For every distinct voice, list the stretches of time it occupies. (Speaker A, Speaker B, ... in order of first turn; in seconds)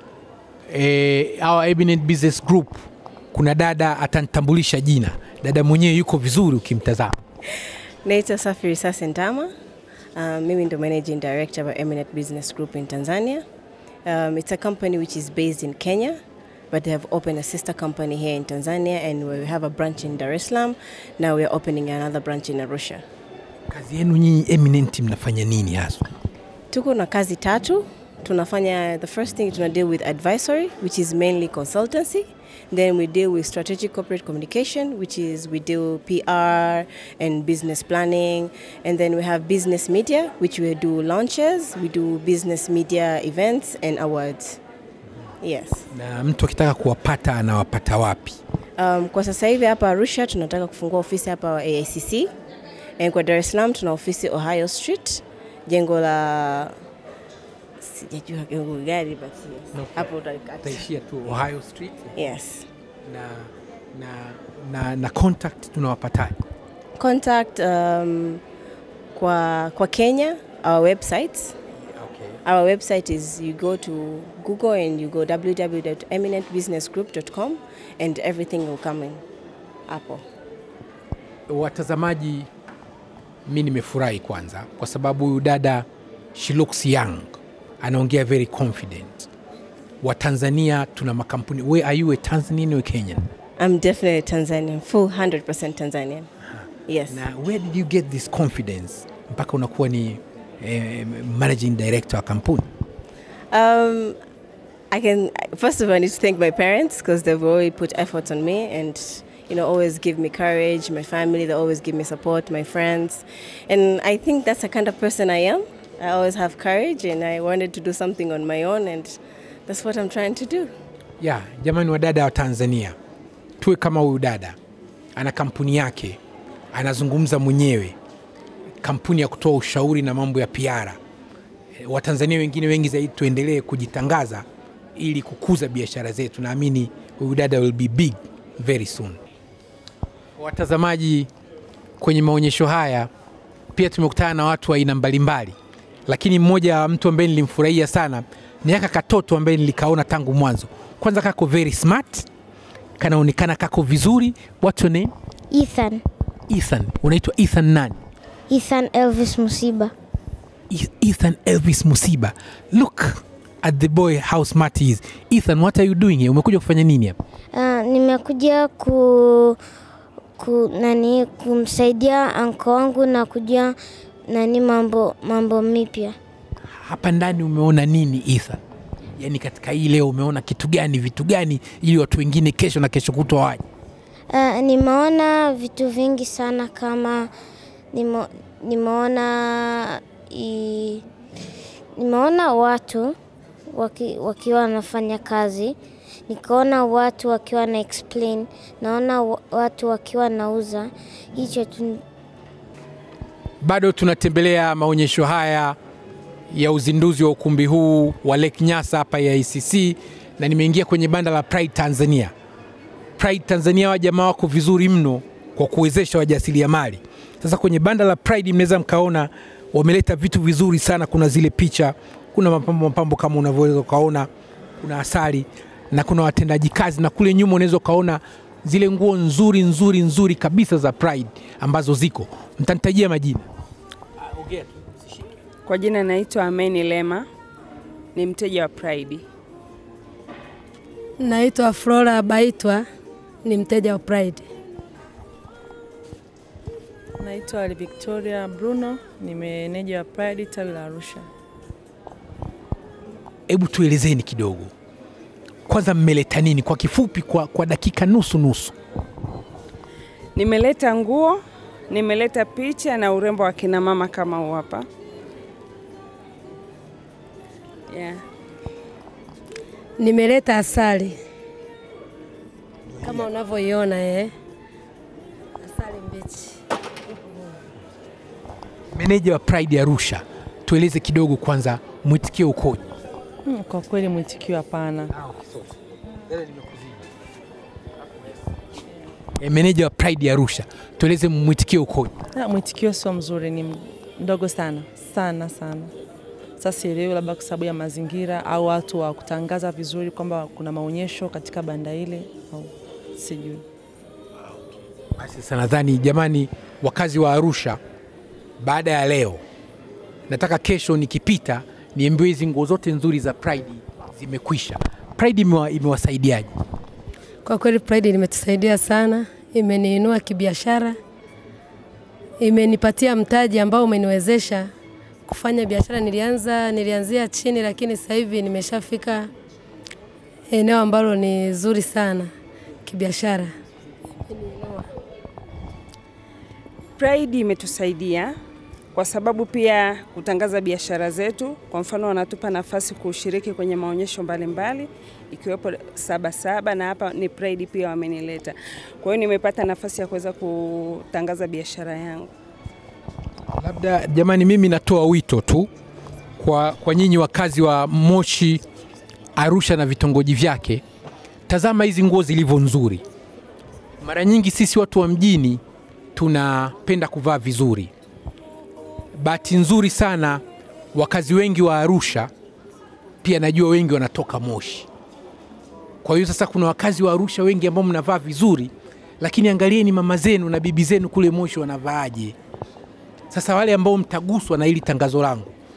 Speaker A: 0.7-7.1, 23.7-26.1, 45.9-48.4, 59.7-62.2, 63.0-66.3, 71.9-72.4, 81.5-82.5, 83.5-89.3, 90.0-93.3, 97.1-102.7, 121.2-123.0, 123.6-124.6, 125.2-126.2, 126.7-128.0, 128.8-131.0, 131.8-139.2, 140.4-141.3, 142.0-143.1, 143.7-145.5, 146.1-152.3, 153.0-155.1, 156.5-158.0, 160.7-167.2, 176.7-178.6, 179.2-183.6, 203.6-205.8, 206.5-212.3, 213.2-224.3, 224.8-233.5, 234.2-235.2, 253.5-254.7, 255.7-258.8, 273.0-273.2, 278.9-282.9, 285.1-285.7, 286.3-287.0, 289.4-292.1, 305.1-307.8, 308.6-309.4, 310.3-316.6, 353.6-355.7, 356.4-358.6, 359.4-360.8, 361.5-363.0, 364.0-365.6, 366.1-367.9, 369.1-372.3, 373.2-374.9, 376.0-382.4, 383.3-385.5
Speaker B: 8.0-9.5, 10.2-13.4, 14.0-16.2, 16.7-23.0, 26.7-44.6, 45.4-45.9, 48.8-52.3, 53.0-56.7, 57.8-60.8, 62.1-62.6, 67.0-68.4, 69.1-71.5, 72.4-79.2, 79.9-80.2, 93.6-96.3, 96.9-97.2, 103.5-104.2, 104.9-120.7
Speaker C: 155.5-156.0, 158.5-159.9, 167.5-169.6, 170.4-173.7, 174.3-176.2, 184.3-187.3, 187.9-191.0, 192.0-193.1, 193.7-195.7, 196.3-202.0
Speaker D: 235.7-237.2, 238.1-239.2, 260.4-264.8, 267.9-268.2, 337.0-338.3, 338.9-352.3
Speaker E: 241.2-242.8, 243.4-244.4, 270.0-271.1, 273.0-274.3, 275.6-276.5, 317.4-321.0, 322.4-324.7, 325.3-329.3, 330.5-332.3, 332.9-333.5, 334.3-334.9
Speaker F: 247.2-251.2, 283.4-285.1, 292.3-295.9, 296.6-303.6